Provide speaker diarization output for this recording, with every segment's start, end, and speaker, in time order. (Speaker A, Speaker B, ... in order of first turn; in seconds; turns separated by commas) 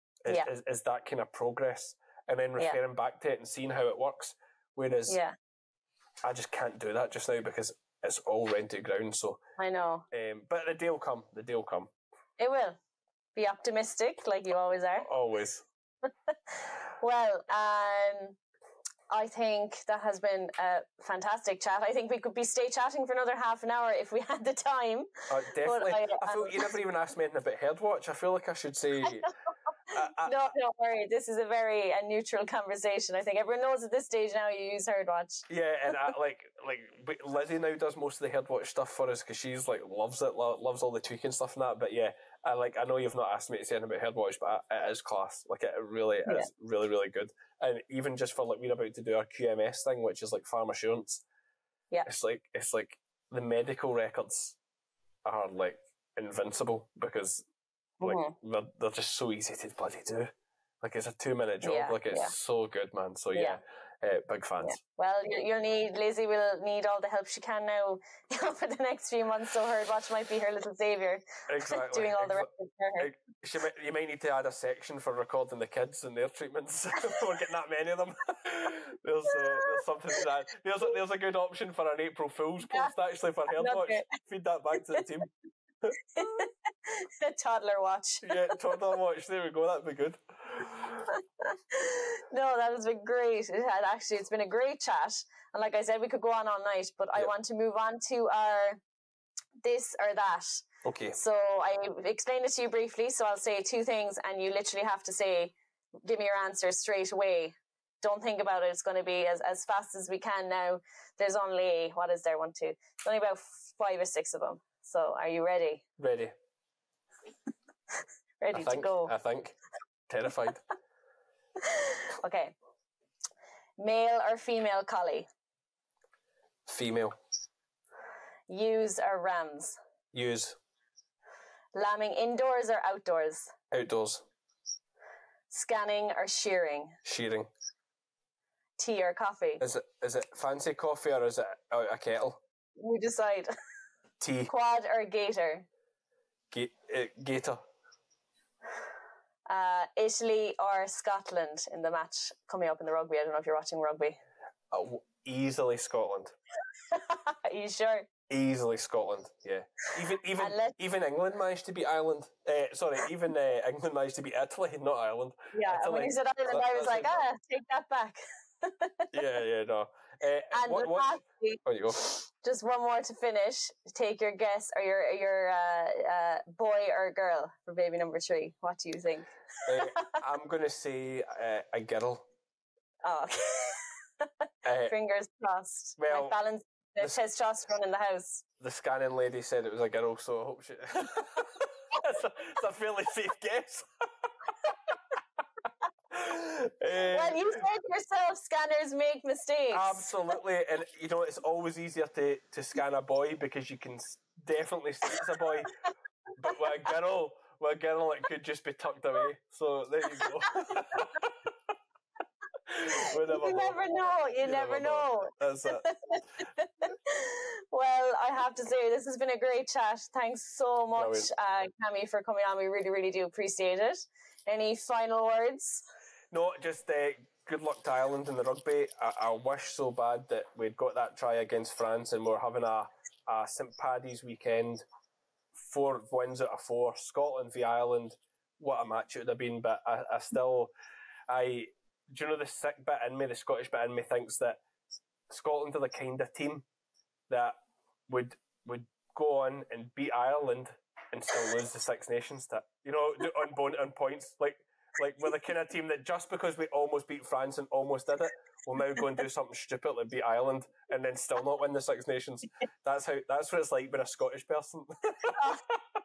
Speaker A: 0.3-5.2, Speaker B: 5.1-5.3, Speaker A: 6.2-9.4, Speaker B: 9.6-10.1, Speaker A: 10.1-11.9, Speaker B: 12.4-12.8, Speaker B: 13.3-15.1, Speaker A: 15.0-15.6, Speaker B: 17.0-18.4, Speaker B: 19.1-26.7, Speaker A: 25.3-29.3, Speaker A: 29.9-30.5, Speaker B: 30.2-35.4, Speaker A: 35.5-51.2, Speaker A: 52.1-54.6, Speaker A: 55.2-57.5, Speaker B: 58.0-58.4, Speaker A: 58.0-64.8, Speaker B: 61.6-62.3, Speaker B: 63.3-63.6, Speaker B: 64.6-73.1, Speaker A: 71.5-85.3, Speaker B: 79.4-79.6, Speaker B: 82.7-82.9, Speaker B: 83.5-84.1, Speaker A: 85.8-86.4, Speaker B: 86.2-88.5, Speaker A: 88.2-91.1, Speaker B: 91.4-98.8, Speaker B: 99.6-115.8, Speaker A: 100.8-101.2, Speaker A: 116.0-116.3, Speaker B: 118.4-119.1, Speaker A: 118.5-119.6, Speaker A: 120.1-120.6, Speaker B: 121.6-122.5, Speaker B: 123.8-125.3, Speaker A: 126.7-127.2, Speaker B: 128.5-129.8, Speaker A: 130.1-130.6, Speaker B: 131.8-133.5, Speaker A: 133.7-134.3, Speaker B: 135.5-137.0, Speaker A: 137.1-137.5, Speaker B: 138.8-139.6, Speaker A: 139.6-142.4, Speaker B: 142.8-143.5, Speaker A: 144.2-144.5, Speaker B: 144.5-145.7, Speaker A: 146.5-147.6, Speaker B: 149.5-154.2, Speaker A: 154.7-156.4, Speaker B: 156.9-158.1, Speaker A: 158.3-167.2, Speaker B: 160.4-160.8, Speaker B: 165.5-169.1, Speaker A: 169.1-172.0, Speaker B: 170.5-180.1, Speaker A: 179.7-182.3, Speaker B: 183.0-183.9, Speaker A: 184.6-184.9, Speaker B: 184.8-188.4, Speaker A: 186.0-186.3, Speaker A: 188.6-193.9, Speaker A: 196.1-197.6, Speaker B: 197.1-200.1, Speaker A: 199.7-205.7, Speaker A: 206.4-211.5, Speaker A: 212.7-215.8, Speaker B: 212.8-225.8, Speaker A: 220.9-221.3, Speaker A: 226.3-234.8, Speaker A: 235.6-240.7, Speaker A: 241.3-244.6, Speaker A: 245.3-246.7, Speaker A: 247.3-247.6, Speaker A: 248.1-265.8